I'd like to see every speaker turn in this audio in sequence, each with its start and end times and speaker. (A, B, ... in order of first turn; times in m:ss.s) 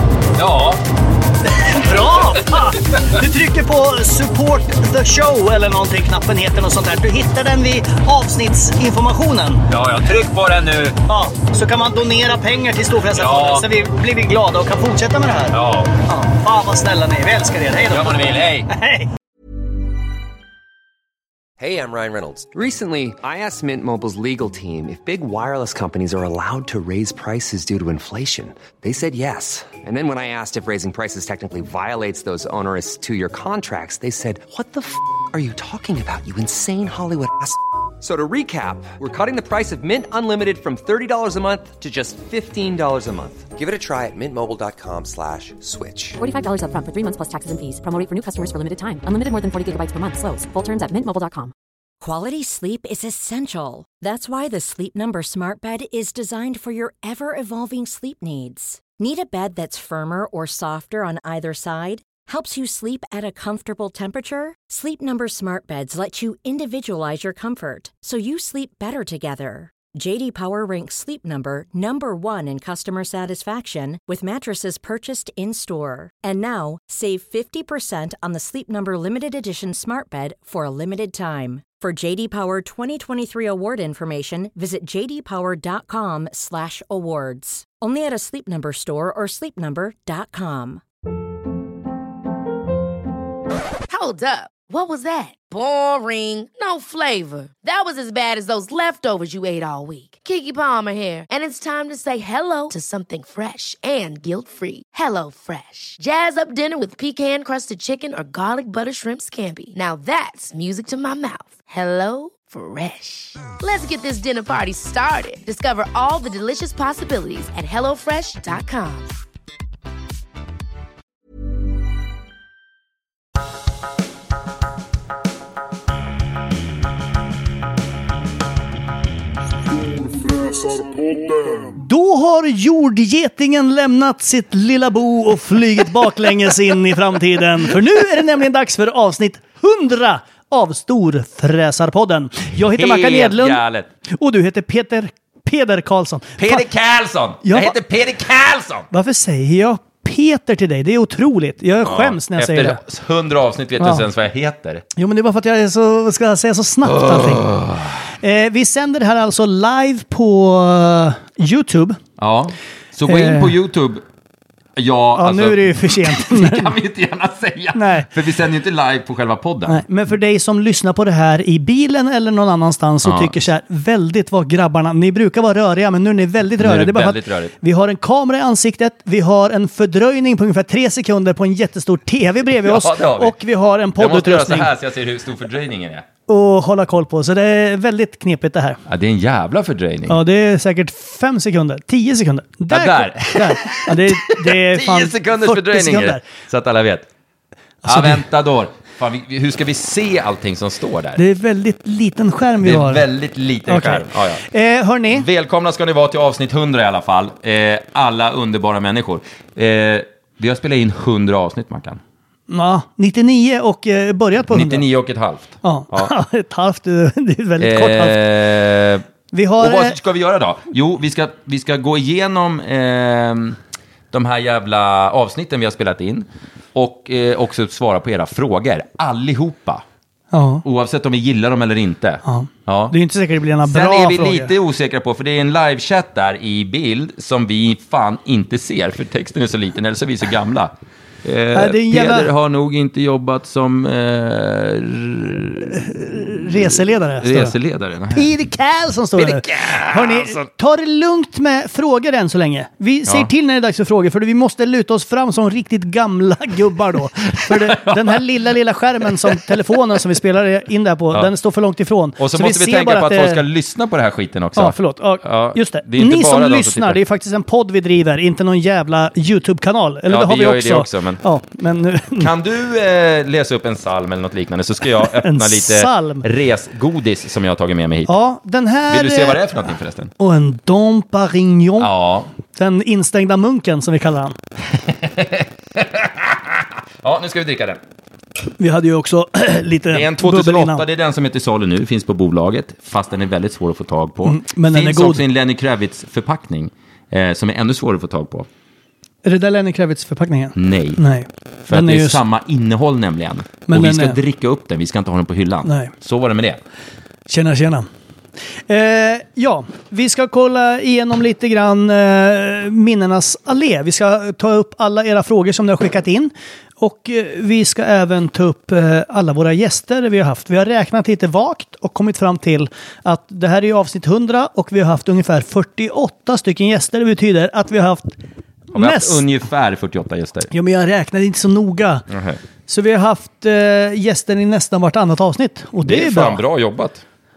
0:00.4-0:00.8 A
0:01.7-0:09.7 B
0:02.3-0:03.0 A
0:09.7-0:11.0 A
0:11.1-0:19.1 B
0:13.1-0:13.6 A
0:15.5-0:16.0 A
0:17.9-0:18.7 A
0:21.6-0:46.2 C
0:46.2-0:51.5 D
0:52.0-1:30.8 E
1:33.9-1:59.1 F
2:11.7-2:26.6 B
2:22.6-2:23.9 A
2:26.4-2:28.9 A
2:27.4-2:27.8 B
2:28.9-2:32.8 B
2:31.9-2:34.8 A
2:33.8-2:34.0 B
2:35.0-2:37.4 B
2:36.8-2:38.0 A
2:38.2-2:42.0 B
2:42.2-2:44.0 A
2:43.1-2:43.5 B
2:44.8-2:49.8 A
2:45.2-2:46.7 B
2:47.8-2:48.1 B
2:49.7-3:04.7 B
2:53.0-2:53.3 A
2:56.6-2:57.5 A
3:02.6-3:03.4 A
3:04.0-3:06.1 A
3:06.3-3:08.8 B
3:08.9-3:10.2 A
3:10.1-3:16.2 B
3:12.7-3:17.1 A
3:17.8-3:21.2 A
3:17.9-3:18.2 B
3:21.2-3:23.0 B
3:22.6-3:24.4 A
3:23.7-3:25.3 B
3:25.1-3:32.0 A
3:32.5-3:34.8 B
3:34.5-3:36.1 A
3:35.6-3:38.2 B
3:37.6-3:39.0 A
3:39.3-3:40.0 B
3:39.6-3:43.6 A
3:44.1-3:49.8 A
3:50.3-3:50.6 B
3:50.6-3:53.0 A
3:52.2-3:54.5 B
3:53.6-4:08.3 A
4:01.5-4:02.3 B
4:05.9-4:07.6 B
4:08.1-4:23.4 B
4:09.2-4:10.5 A
4:17.4-4:18.2 A
4:19.3-4:19.8 A
4:22.2-4:27.0 A
4:24.6-4:32.3 B
4:30.1-4:31.2 A
4:32.2-4:38.1 A
4:35.1-4:36.2 B
4:38.1-4:39.4 B
4:38.9-4:40.1 A
4:40.2-4:41.9 B
4:41.8-4:42.3 A
4:42.5-4:44.4 B
4:44.7-4:47.8 A
4:48.6-4:50.8 B
4:49.9-4:58.5 A
4:54.2-4:55.2 B
4:59.2-5:02.2 B
5:00.5-5:01.0 A
5:01.6-5:06.6 A
5:03.7-5:04.2 B
5:05.6-5:05.9 B
5:07.3-5:07.9 B
5:08.7-5:28.2 B
5:28.7-5:29.2 B
5:28.7-5:30.5 A
5:30.5-5:32.1 B
5:32.1-5:32.4 A
5:32.7-5:36.4 B
5:35.8-5:37.0 A